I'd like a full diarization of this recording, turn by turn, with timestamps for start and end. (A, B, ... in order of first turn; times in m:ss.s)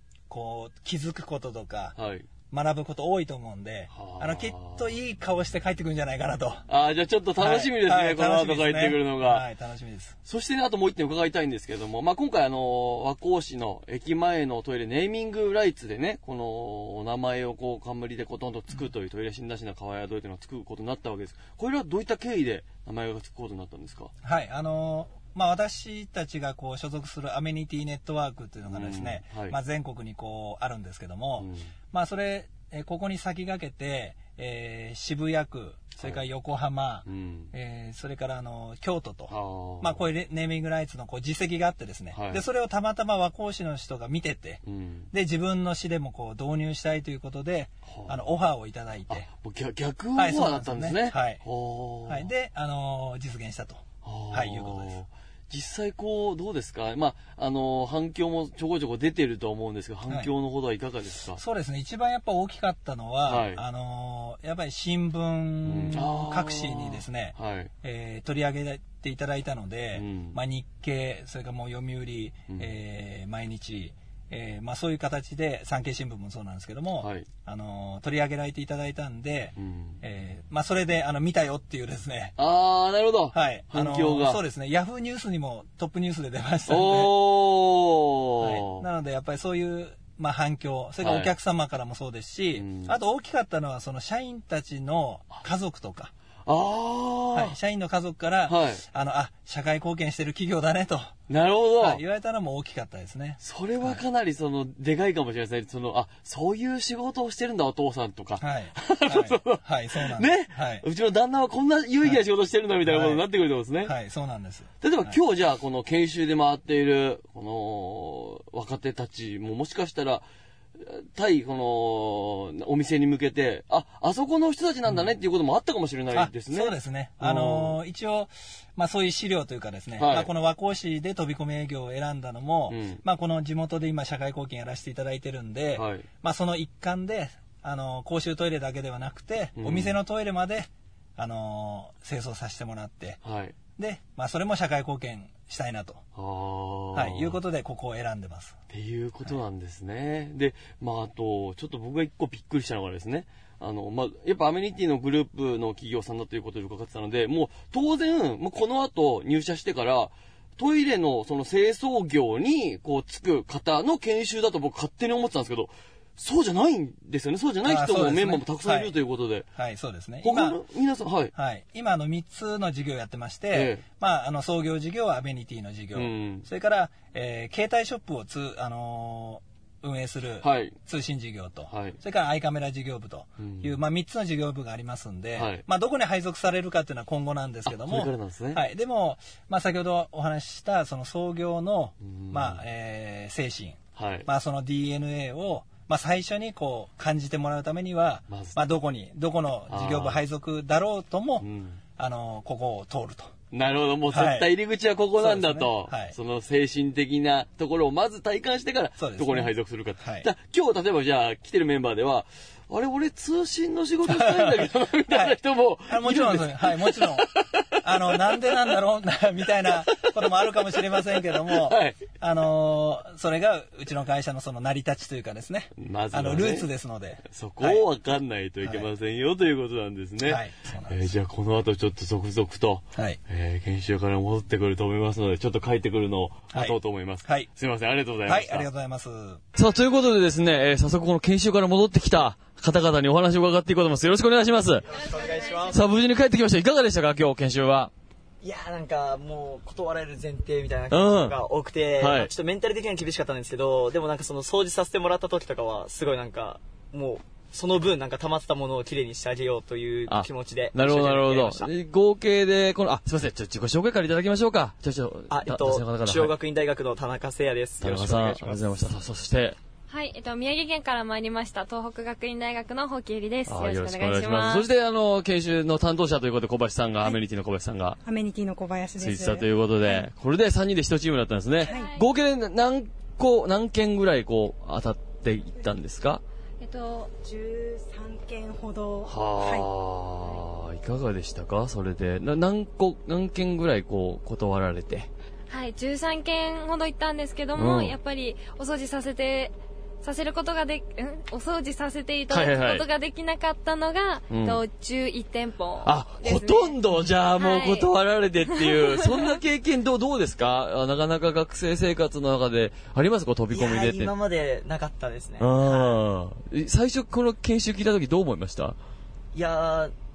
0:00.3-0:02.0 A
0:02.0-0:02.3 B
0:02.5-0:06.6 A
0:03.9-0:04.8 B
0:06.7-0:09.5 B
0:07.4-0:10.2 A
0:10.2-0:24.1 B
0:24.2-0:44.6 A
0:28.6-0:29.6 B
0:31.4-0:31.7 B
0:37.0-0:37.5 B
0:39.3-0:40.1 B
0:42.1-0:42.4 B
0:44.6-0:45.1 B
0:45.1-0:49.3 A
0:47.8-0:48.2 B
0:49.1-0:52.3 B
0:50.1-0:51.4 A
0:52.0-0:55.0 A
0:54.0-1:01.4 B
1:00.0-1:00.3 A
1:01.4-1:22.4 A
1:03.2-1:03.6 B
1:05.6-1:07.7 B
1:09.9-1:10.4 B
1:17.0-1:17.2 B
1:19.6-1:20.0 B
1:22.4-1:24.4 B
1:23.3-1:27.2 A
1:26.7-1:28.8 B
1:28.4-1:36.1 A
1:31.0-1:31.3 B
1:32.6-1:32.9 B
1:36.4-1:37.5 B
1:37.3-1:41.1 A
1:38.5-1:38.8 B
1:41.3-1:42.0 B
1:41.8-1:44.0 A
1:43.4-1:53.9 B
1:48.4-1:50.8 A
1:52.8-1:53.2 A
1:53.8-1:55.2 A
1:54.8-2:00.2 B
2:00.8-2:07.8 B
2:04.8-2:05.1 A
2:06.1-2:23.2 A
2:10.0-2:10.3 B
2:12.7-2:13.0 B
2:15.8-2:16.0 B
2:19.6-2:20.0 B
2:23.2-2:23.5 B
2:23.8-2:26.0 A
2:26.2-2:27.4 B
2:26.9-2:28.6 A
2:28.7-2:49.5 B
2:47.6-2:49.0 A
2:49.5-2:50.6 A
2:50.2-2:51.3 B
2:51.3-3:21.4 A
2:53.5-2:53.8 B
2:55.9-2:56.4 B
3:00.4-3:00.8 B
3:01.7-3:02.0 B
3:03.4-3:03.8 B
3:05.3-3:05.6 B
3:07.6-3:08.6 B
3:12.0-3:12.6 B
3:14.0-3:14.3 B
3:18.3-3:18.6 B
3:19.7-3:20.2 B
3:21.4-3:21.8 B
3:22.0-3:23.3 A
3:23.5-3:37.5 B
3:24.1-3:24.5 A
3:25.1-3:26.2 A
3:29.0-3:30.3 A
3:34.0-3:37.3 A
3:37.8-3:47.8 A
3:38.1-3:38.3 B
3:41.4-3:42.0 B
3:45.8-3:46.7 B
3:47.3-3:58.7 B
3:48.6-3:48.9 A
3:50.2-3:51.1 A
3:52.9-3:53.2 A
3:56.5-3:57.5 A
3:58.2-3:59.4 A
3:59.5-4:04.8 B
4:04.9-4:05.8 C
4:05.7-4:07.9 B
4:08.4-4:21.7 C
4:10.9-4:11.4 B
4:12.0-4:12.3 B
4:20.1-4:26.3 B
4:25.3-4:28.0 C
4:27.8-4:29.6 B
4:29.9-4:34.7 D
4:33.4-4:38.0 B
4:38.0-4:40.0 E
4:39.0-4:46.2 B
4:41.6-4:42.0 D
4:41.6-4:41.9 E
4:46.6-4:47.1 D
4:47.2-4:49.7 E
4:49.0-4:55.1 B
4:55.5-5:07.9 D
4:57.6-4:58.0 B
5:02.3-5:02.8 B
5:04.3-5:04.6 B
5:05.8-5:14.1 B
5:08.5-5:09.3 D
5:13.5-5:15.9 C
5:15.4-5:18.8 B
5:19.3-5:19.9 C